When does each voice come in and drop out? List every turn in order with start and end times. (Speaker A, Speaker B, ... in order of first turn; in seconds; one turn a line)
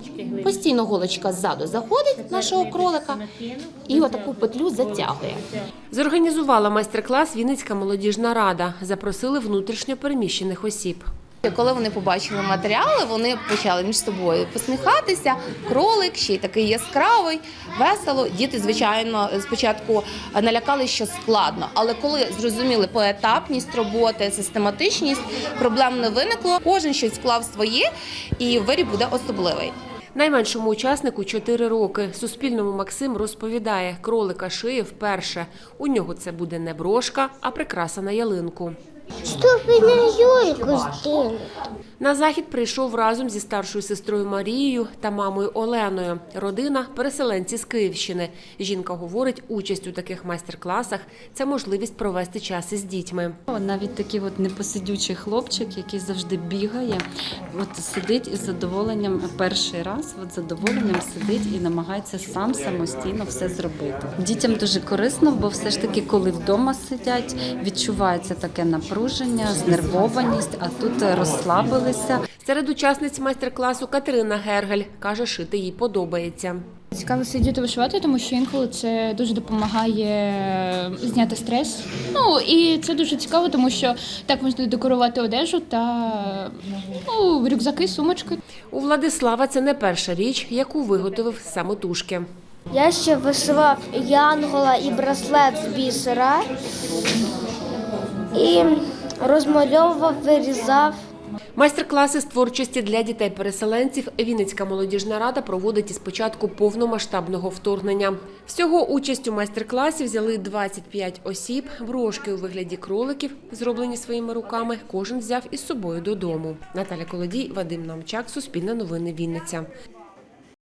Speaker A: 0.4-3.2
Speaker A: 3.9-5.4
Speaker B: 5.9-11.1
Speaker A: 11.4-29.8
Speaker B: 30.2-38.8
Speaker C: 39.3-41.4
Speaker B: 42.0-53.4
Speaker D: 53.5-72.2
Speaker B: 72.5-76.6
Speaker E: 77.0-86.5
Speaker E: 87.1-88.4
Speaker B: 88.7-92.3
Speaker C: 92.7-96.5
Speaker C: 98.3-101.0
Speaker B: 101.6-119.7